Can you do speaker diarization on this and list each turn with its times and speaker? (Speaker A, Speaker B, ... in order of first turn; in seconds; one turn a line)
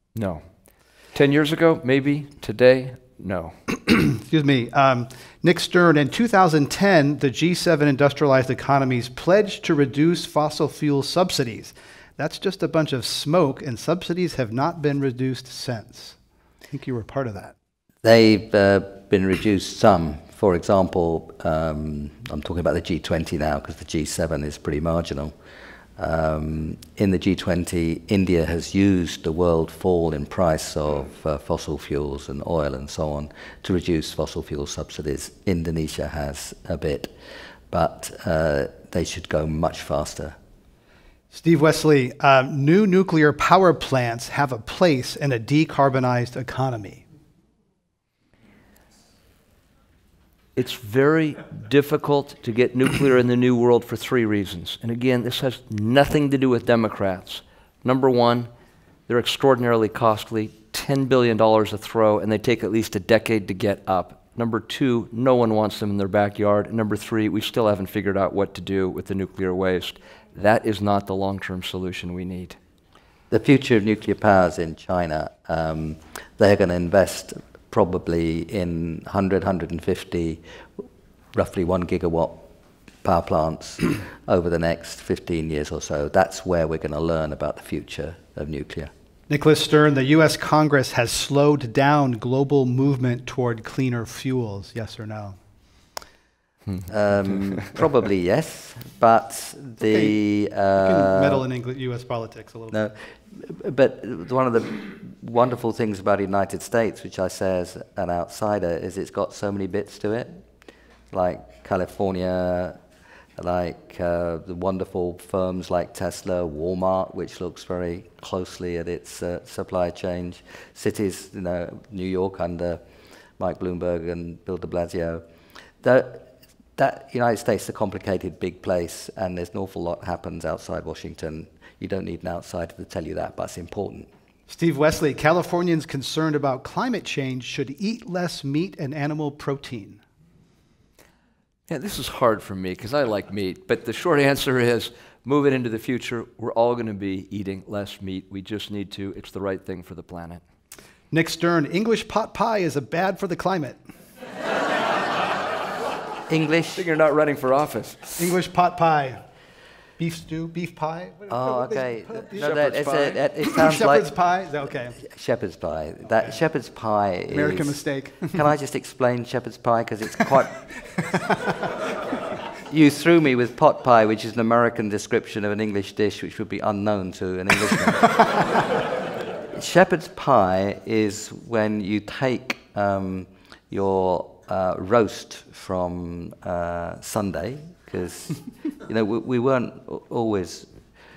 Speaker A: 0.1-0.4
Speaker A: 1.1-3.5
Speaker B: 3.8-16.2
Speaker B: 16.7-17.5
Speaker C: 18.0-25.3
Speaker C: 26.0-37.1
Speaker C: 37.7-40.3
Speaker B: 41.3-47.0
Speaker A: 50.5-58.5
Speaker A: 59.1-72.6
Speaker C: 73.3-80.4
Speaker C: 81.3-82.4
Speaker C: 83.0-88.9
Speaker B: 89.3-95.4
Speaker C: 96.9-101.4
Speaker B: 99.8-100.2
Speaker B: 100.8-102.8
Speaker C: 102.7-110.4
Speaker C: 111.1-112.8
Speaker C: 113.4-122.8
Speaker C: 123.4-125.2
Speaker C: 125.8-126.2
Speaker C: 126.8-134.1
Speaker B: 134.5-140.0
Speaker A: 141.7-150.4
Speaker B: 151.1-153.8
Speaker C: 156.3-156.8
Speaker A: 156.7-158.2
Speaker B: 158.2-159.2
Speaker B: 160.0-165.0
Speaker C: 161.3-164.1
Speaker C: 165.0-170.6
Speaker B: 167.3-168.4
Speaker B: 171.1-171.6
Speaker C: 172.7-178.3
Speaker C: 179.5-190.7